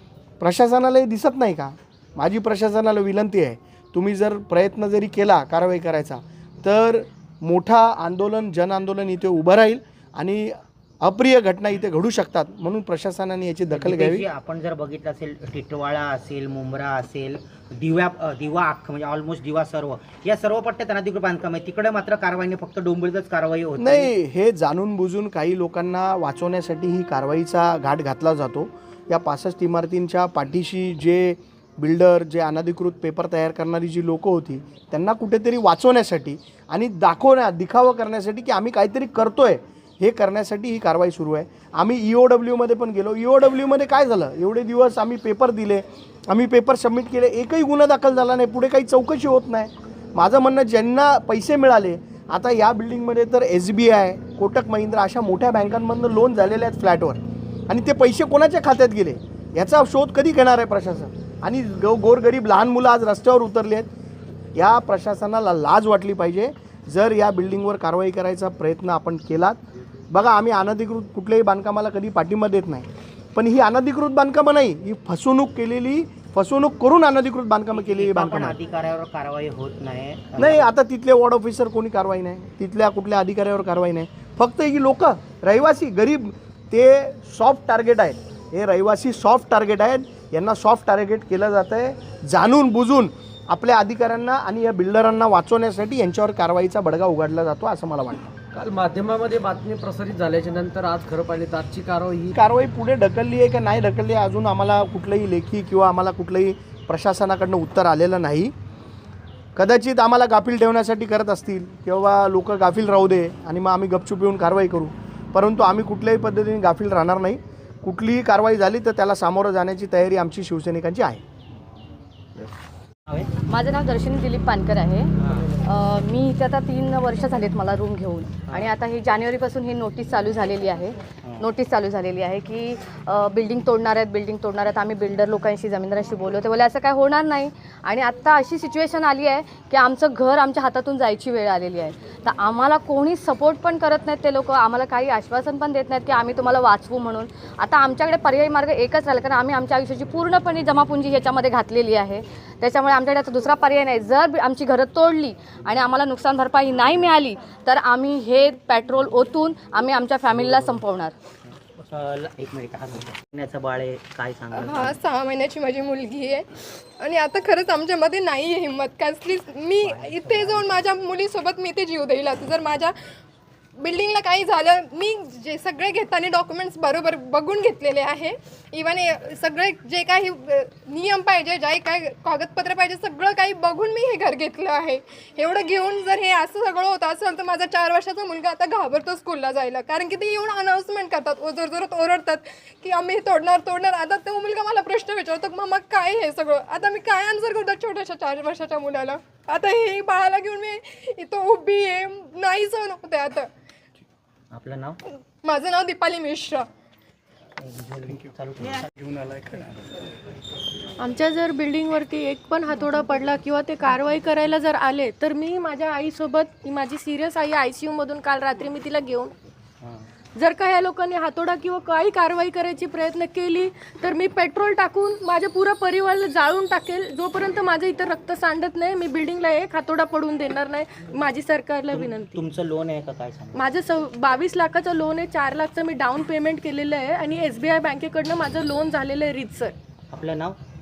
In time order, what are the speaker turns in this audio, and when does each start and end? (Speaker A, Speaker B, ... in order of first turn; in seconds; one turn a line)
Speaker A: 0.4-14.3
Speaker B: 13.7-24.1
Speaker A: 23.8-63.9
Speaker A: 64.6-69.6
Speaker A: 70.1-78.6
Speaker B: 77.7-80.7
Speaker A: 80.4-98.3
Speaker C: 98.5-102.3
Speaker A: 102.3-108.5
Speaker A: 109.6-121.2
Speaker D: 123.5-161.1
Speaker B: 161.8-165.0
Speaker E: 164.5-166.5
Speaker E: 167.0-173.0
Speaker B: 169.8-170.9
Speaker E: 173.8-203.5
Speaker B: 204.5-205.0
Speaker E: 205.4-206.7
Speaker B: 207.6-208.9
Speaker A: 209.1-209.7
Speaker F: 211.0-219.3
Speaker F: 220.4-232.4
Speaker B: 231.9-233.7
Speaker F: 233.5-239.8
Speaker B: 240.1-240.6